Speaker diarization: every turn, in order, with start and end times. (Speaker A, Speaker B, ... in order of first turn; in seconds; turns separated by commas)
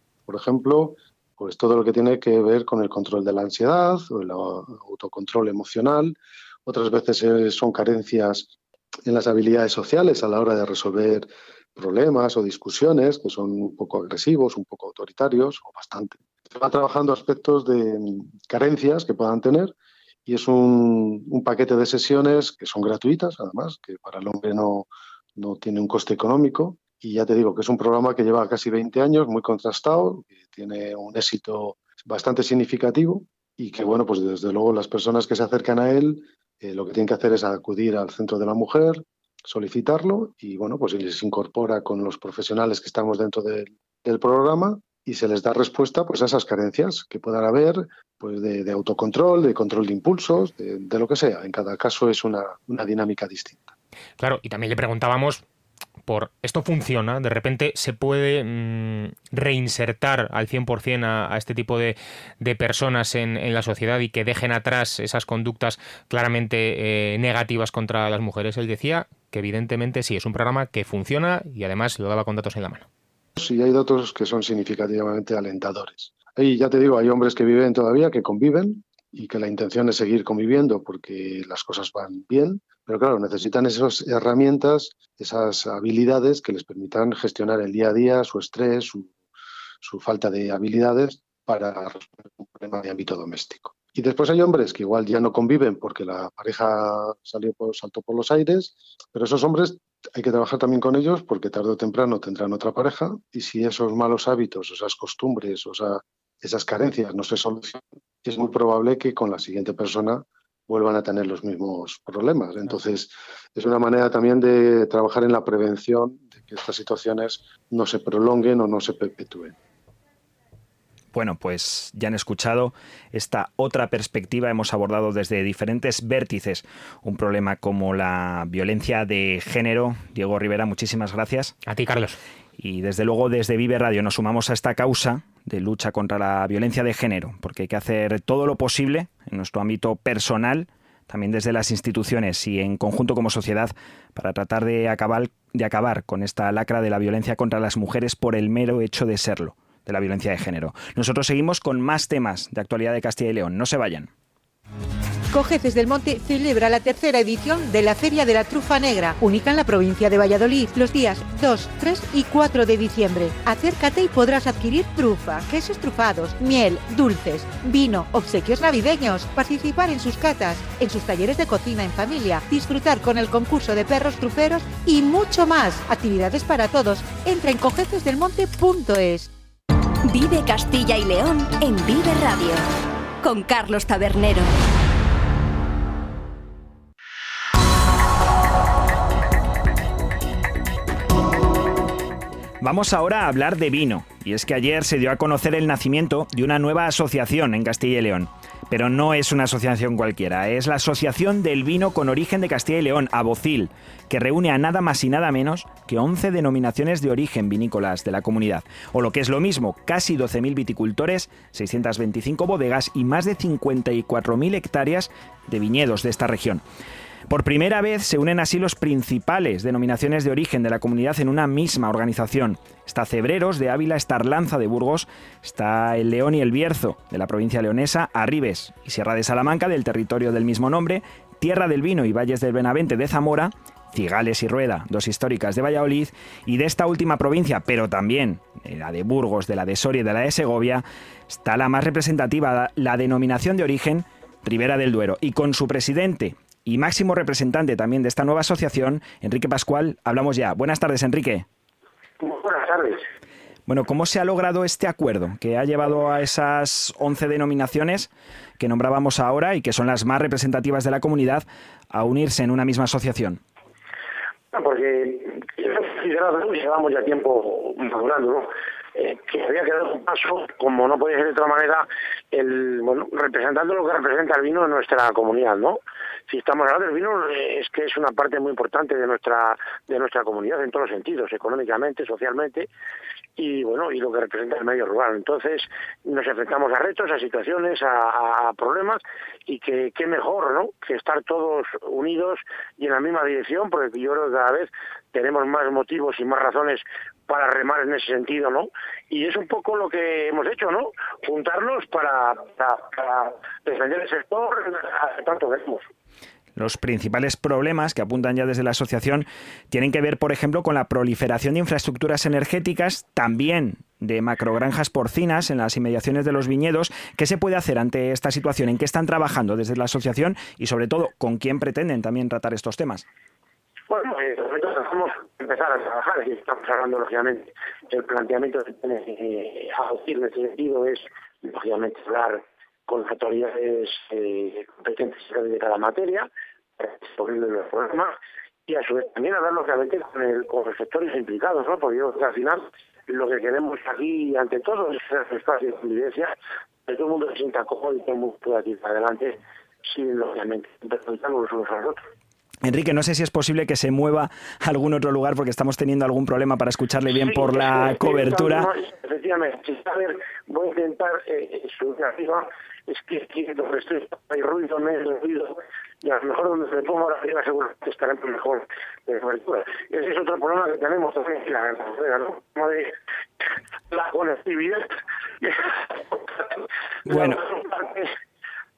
Speaker A: 0.3-8.5, Speaker A: 9.1-19.7, Speaker A: 20.3-53.8, Speaker B: 54.2-55.5, Speaker B: 56.1-72.9, Speaker A: 73.4-89.1, Speaker A: 89.8-119.6, Speaker C: 121.1-131.6, Speaker B: 131.7-132.2, Speaker C: 132.6-154.1, Speaker D: 155.3-179.3, Speaker E: 180.1-182.7, Speaker E: 183.2-184.6, Speaker C: 192.6-216.6, Speaker C: 217.3-251.5, Speaker F: 252.2-253.0, Speaker C: 253.7-263.4, Speaker F: 264.5-282.7, Speaker F: 283.4-305.8, Speaker C: 306.6-323.1, Speaker F: 323.9-336.3, Speaker F: 336.8-338.1, Speaker F: 338.7-346.3, Speaker F: 346.9-352.0, Speaker C: 352.6-358.7, Speaker F: 357.2-372.9, Speaker F: 373.9-374.9, Speaker F: 375.4-376.5, Speaker F: 377.1-378.1, Speaker C: 377.1-377.4